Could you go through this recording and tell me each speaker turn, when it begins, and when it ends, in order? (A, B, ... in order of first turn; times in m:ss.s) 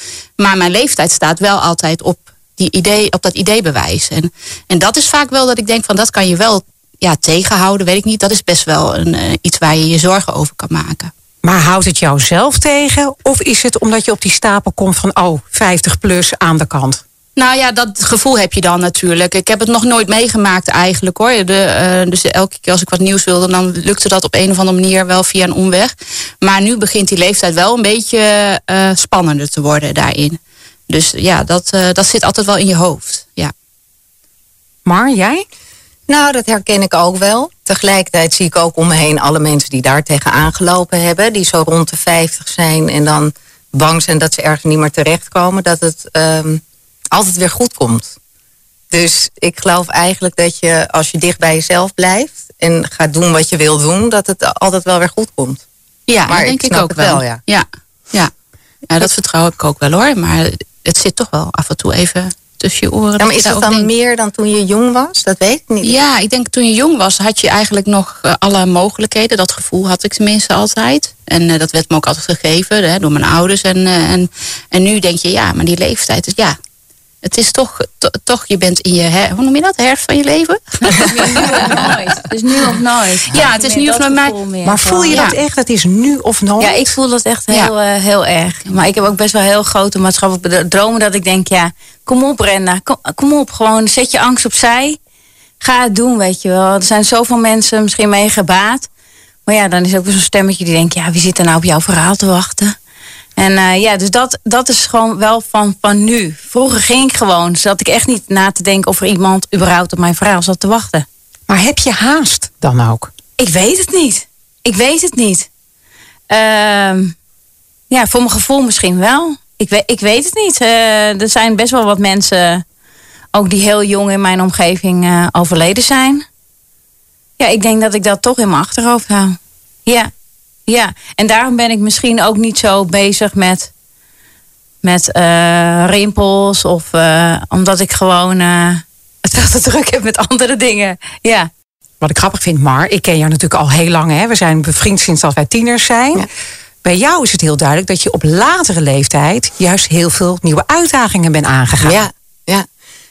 0:00.4-0:11.1 A
0:11.4-0:17.0 B
0:17.4-0:33.5 A
0:34.9-0:35.4 B
0:36.1-0:46.6 C
0:47.1-0:48.2 C
0:48.9-0:55.6 C
0:56.1-0:58.3 A
0:56.3-0:57.4 C
0:58.9-1:03.9 A
1:03.2-1:06.0 C
1:05.8-1:16.6 A
1:17.2-1:21.8 A
1:21.0-1:25.3 D
1:23.3-1:24.4 A
1:24.6-1:27.0 B
1:25.1-1:25.4 A
1:26.6-1:35.0 D
1:35.6-1:38.9 D
1:39.5-1:42.8 D
1:43.4-1:51.0 D
1:51.5-1:53.1 B
1:53.4-1:55.5 D
1:56.3-1:57.1 D
1:57.9-2:02.6 D
2:03.3-2:06.2 D
2:07.4-2:10.1 D
2:10.7-2:13.7 D
2:14.8-2:21.5 D
2:22.0-2:26.3 B
2:26.8-2:32.1 B
2:31.8-2:32.7 C